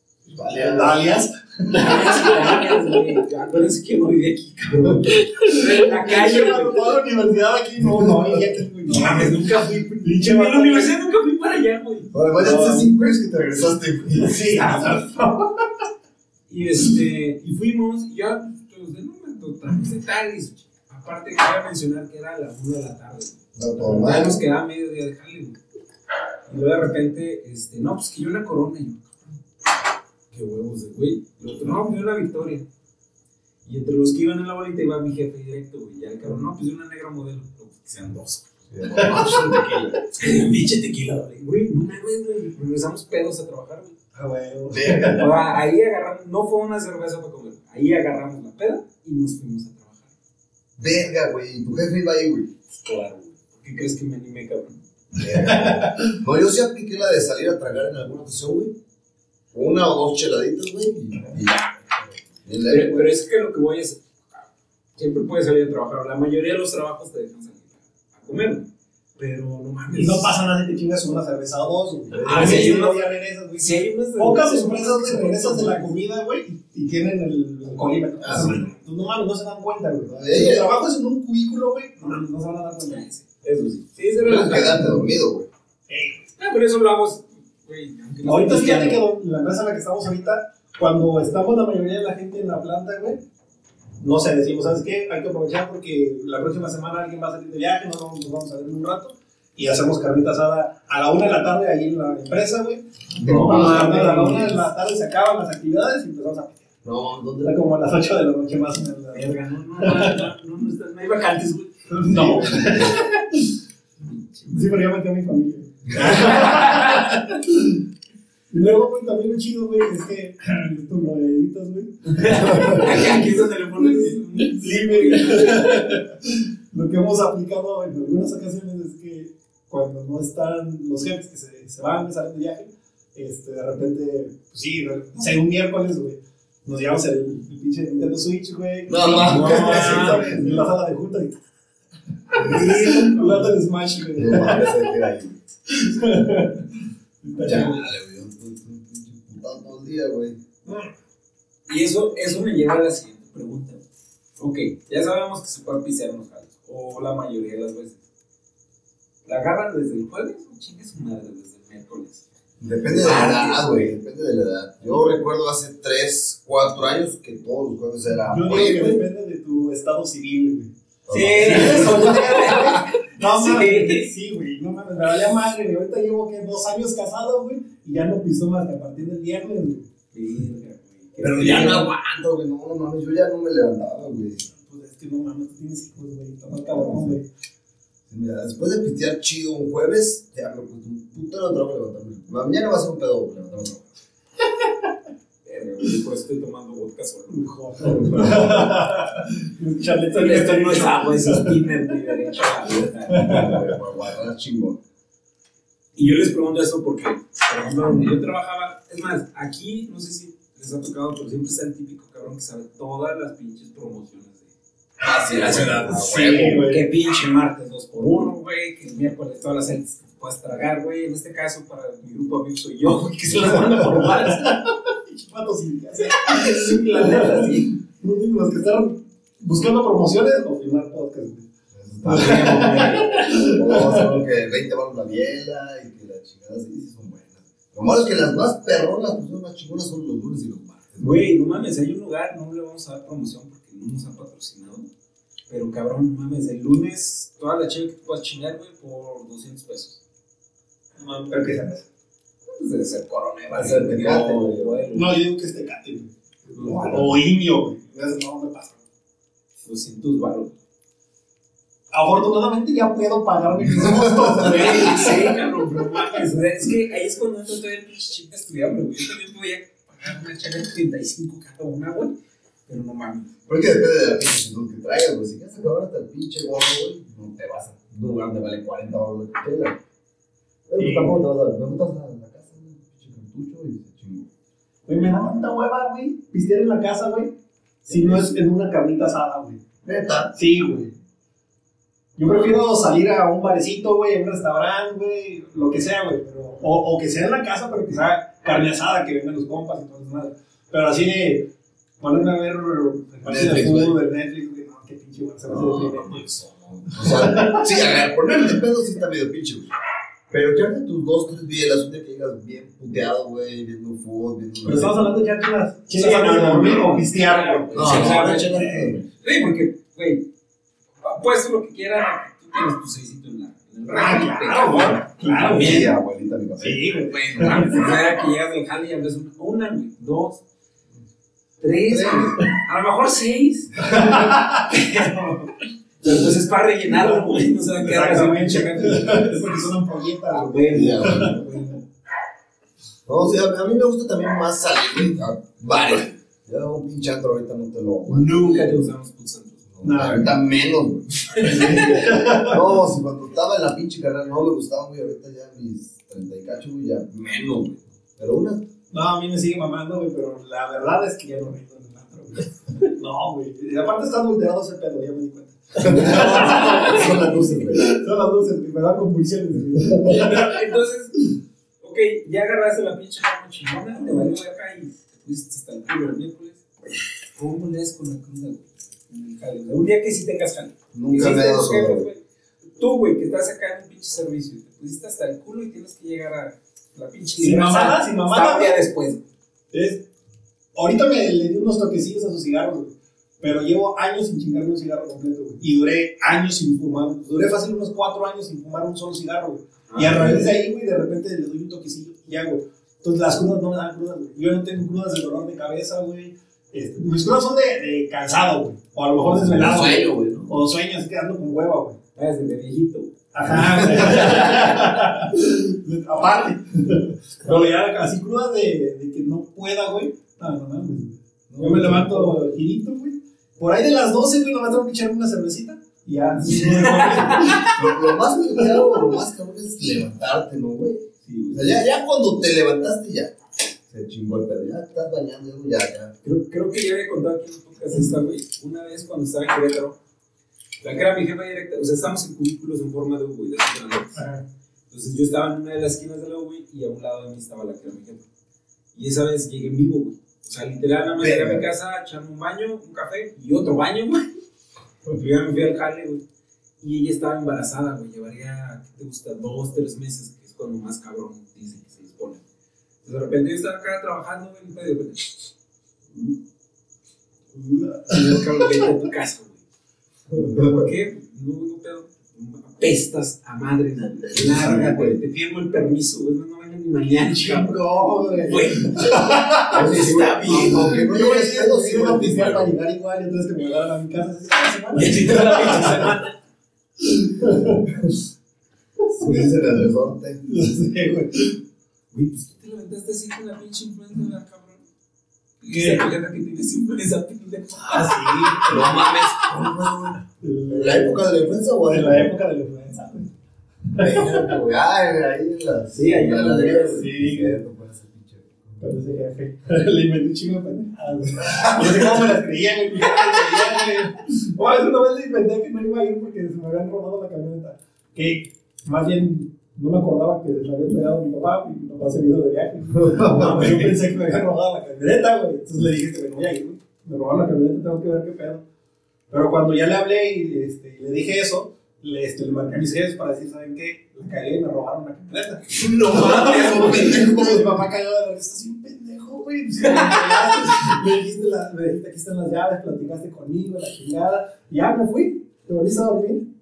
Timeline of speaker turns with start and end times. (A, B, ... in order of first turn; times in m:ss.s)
0:00.2-0:01.0 A
0:00.5-0:02.7 B
0:01.7-0:07.0 C
0:05.5-0:09.4 B
0:08.9-0:12.1 C
0:10.0-0:10.9 B
0:12.1-0:15.0 A
0:12.4-0:12.9 B
0:14.1-0:15.7 B
0:16.5-0:25.6 C
0:23.5-0:24.4 A
0:26.5-0:29.3 C
0:30.3-0:32.6 C
0:33.6-0:38.5 C
0:38.7-0:40.0 A
0:38.9-0:39.5 B
0:40.2-0:43.9 C
0:44.1-0:45.3 B
0:44.7-0:45.4 A
0:45.1-0:50.1 C
0:50.8-0:52.5 A
0:52.7-0:54.8 C
0:55.1-0:58.7 A
0:55.5-0:56.1 B
0:59.5-1:03.1 A
1:02.6-1:08.6 C
1:09.2-1:10.3 C
1:09.9-1:23.0 B
1:12.1-1:12.8 A
1:12.2-1:15.9 C
1:18.2-1:18.6 A
1:20.1-1:20.7 A
1:22.9-1:24.8 C
1:24.2-1:25.5 A
1:25.9-1:26.2 B
1:26.4-1:29.0 C
1:28.2-1:33.2 B
1:34.0-1:46.7 B
1:43.2-1:44.7 A
1:46.8-1:47.6 A
1:47.4-1:50.2 B
1:49.1-1:52.8 C
1:51.9-1:53.5 B
1:52.5-1:53.0 A
1:54.0-1:54.6 C
1:54.5-1:57.8 B
1:55.9-1:57.2 C
1:58.5-2:21.4 B
2:02.0-2:05.9 C
2:18.9-2:20.6 A
2:19.1-2:20.5 C
2:22.3-2:24.8 B
2:22.4-2:23.5 C
2:24.2-2:25.4 A
2:25.7-2:27.8 B
2:27.4-2:30.4 A
2:30.6-2:30.9 B
2:31.7-2:33.8 C
2:34.4-2:38.0 C
2:39.2-2:42.2 C
2:42.6-2:49.0 A
2:43.0-2:43.7 C
2:48.2-2:50.7 B
2:51.0-2:52.3 A
2:51.1-2:54.1 C
2:51.4-2:59.8 B
3:00.1-3:01.9 C
3:01.2-3:01.8 B
3:01.4-3:04.4 A
3:04.5-3:07.2 B
3:06.7-3:07.1 A
3:08.1-3:13.8 A
3:15.4-3:17.4 C
3:17.3-3:21.8 B
3:17.9-3:18.6 A
3:20.1-3:23.4 C
3:23.1-3:23.6 B
3:23.1-3:24.8 A
3:26.0-3:34.5 C
3:35.0-3:36.6 A
3:35.2-3:44.6 C
3:35.8-3:36.8 B
3:43.6-3:51.4 B
3:46.0-3:47.8 C
3:51.7-4:01.3 A
3:52.0-3:53.6 C
3:52.0-3:54.2 B
4:01.0-4:04.8 C
4:05.5-4:10.0 C
4:11.0-4:11.8 B
4:12.4-4:15.1 C
4:13.5-4:14.8 A
4:14.9-4:16.1 B
4:16.5-4:17.1 A
4:16.6-4:16.8 C
4:16.6-4:18.8 B
4:19.6-4:20.6 C
4:21.9-4:25.4 B
4:23.7-4:24.8 A
4:24.4-4:32.1 C
4:32.7-4:33.3 C
4:33.5-4:39.8 A
4:40.7-4:44.3 A
4:40.8-4:41.2 B
4:44.9-4:47.3 B
4:47.9-4:49.6 B
4:47.9-4:48.2 A
4:49.8-4:50.4 A
4:50.3-4:50.9 B
4:52.2-5:01.5 B
4:52.2-4:52.6 A
5:02.0-5:06.2 B
5:03.2-5:04.0 A
5:05.5-5:09.7 A
5:06.9-5:07.7 B
5:10.3-5:15.1 A
5:14.6-5:18.9 B
5:15.9-5:18.7 C
5:17.7-5:19.0 A
5:19.2-5:20.2 C
5:21.0-5:25.9 C
5:23.9-5:25.9 B
5:25.5-5:28.0 A
5:26.6-5:27.7 B
5:27.1-5:30.4 C
5:31.6-5:35.5 C
5:31.9-5:32.4 A
5:33.8-5:34.7 B
5:36.0-5:39.4 C
5:36.9-5:37.2 B
5:37.8-5:41.4 B
5:40.3-5:41.8 C
5:40.7-5:41.5 A
5:43.0-5:48.8 A
5:48.1-5:49.6 C
5:49.7-5:58.6 A
5:49.8-5:50.3 B
5:51.3-5:52.0 C
5:51.4-5:52.7 B
5:58.9-6:10.6 B
6:05.8-6:07.9 A
6:05.8-6:07.3 C
6:10.1-6:11.2 C
6:11.8-6:16.6 C
6:17.3-6:22.2 C
6:20.9-6:22.1 A
6:22.8-6:29.2 C
6:27.4-6:28.8 B
6:29.7-6:30.0 B
6:30.7-6:52.0 B
6:39.9-6:40.3 C
6:40.0-6:40.5 A
6:49.2-6:50.5 A
6:52.1-6:53.1 C
6:53.3-7:07.7 B
6:53.4-6:54.7 A
7:01.5-7:02.4 A
7:06.4-7:07.7 C
7:07.6-7:13.3 A
7:11.2-7:11.6 C
7:13.9-7:16.1 A
7:16.2-7:20.0 C
7:20.8-7:24.2 C
7:24.2-7:24.4 B
7:24.9-7:28.2 C
7:28.9-7:34.3 C
7:31.2-7:31.6 A
7:35.1-7:36.2 C
7:36.8-7:42.4 C
7:43.0-7:45.5 C
7:47.6-7:49.6 C
7:50.3-7:50.9 A
7:50.5-7:57.7 C
7:54.2-7:55.2 A
7:57.3-7:59.8 B
7:58.4-8:00.9 C
7:59.7-8:02.7 A
8:00.7-8:06.1 B
8:04.9-8:06.3 C
8:07.0-8:07.9 B
8:07.9-8:08.1 A
8:09.1-8:10.5 A
8:10.4-8:11.6 B
8:12.1-8:14.8 C
8:15.6-8:18.7 C
8:15.7-8:16.1 B
8:17.9-8:18.8 B
8:18.6-8:22.3 A
8:20.4-8:23.3 B
8:23.8-8:24.5 B
8:24.0-8:28.8 A
8:25.9-8:27.1 C
8:27.0-8:27.6 B
8:28.8-8:48.6 B
8:31.4-8:32.2 A
8:42.9-8:43.9 A
8:49.3-9:06.4 B
8:55.7-8:57.6 C
8:59.8-9:00.5 C